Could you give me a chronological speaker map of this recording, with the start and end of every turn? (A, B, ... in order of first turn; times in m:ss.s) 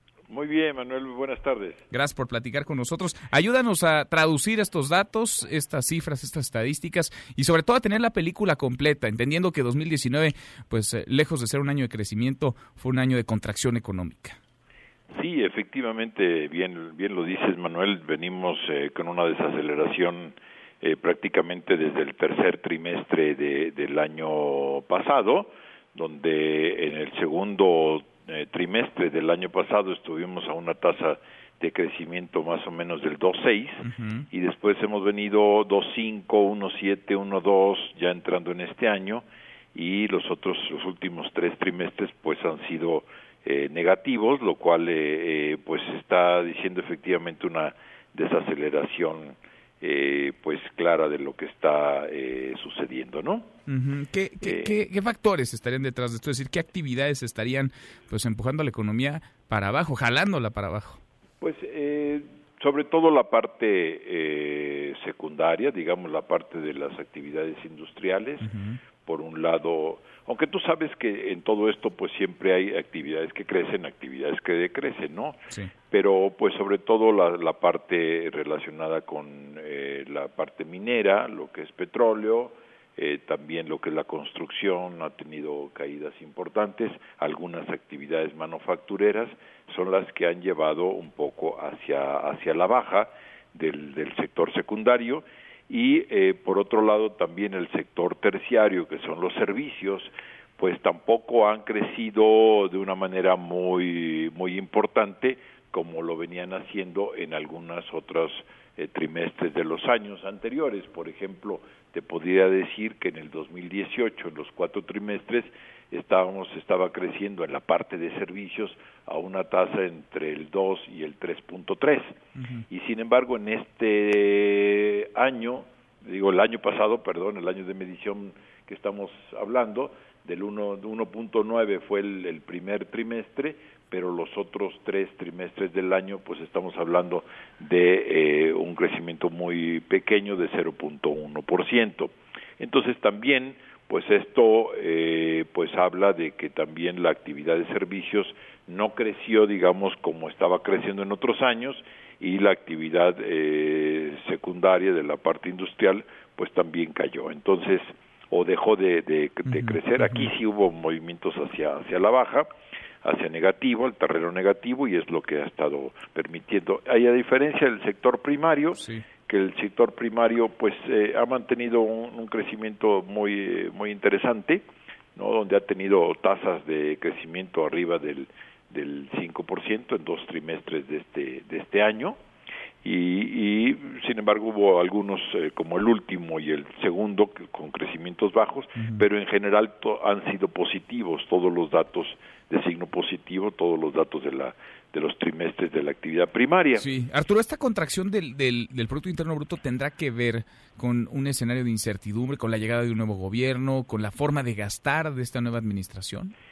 0:00.3-0:01.8 A
0:01.9-0:14.4 B
0:15.1-0:53.5 A
0:33.8-0:34.2 B
0:53.7-1:01.0 B
0:54.4-0:54.8 A
1:01.4-1:08.5 A
1:08.4-1:08.8 B
1:09.0-1:15.4 A
1:15.9-2:02.1 A
2:02.7-2:42.5 A
2:39.5-2:40.3 B
2:43.0-2:54.6 A
2:48.8-2:49.0 B
2:55.2-3:02.2 A
3:02.8-3:16.9 A
3:08.8-3:09.0 B
3:16.8-3:26.3 B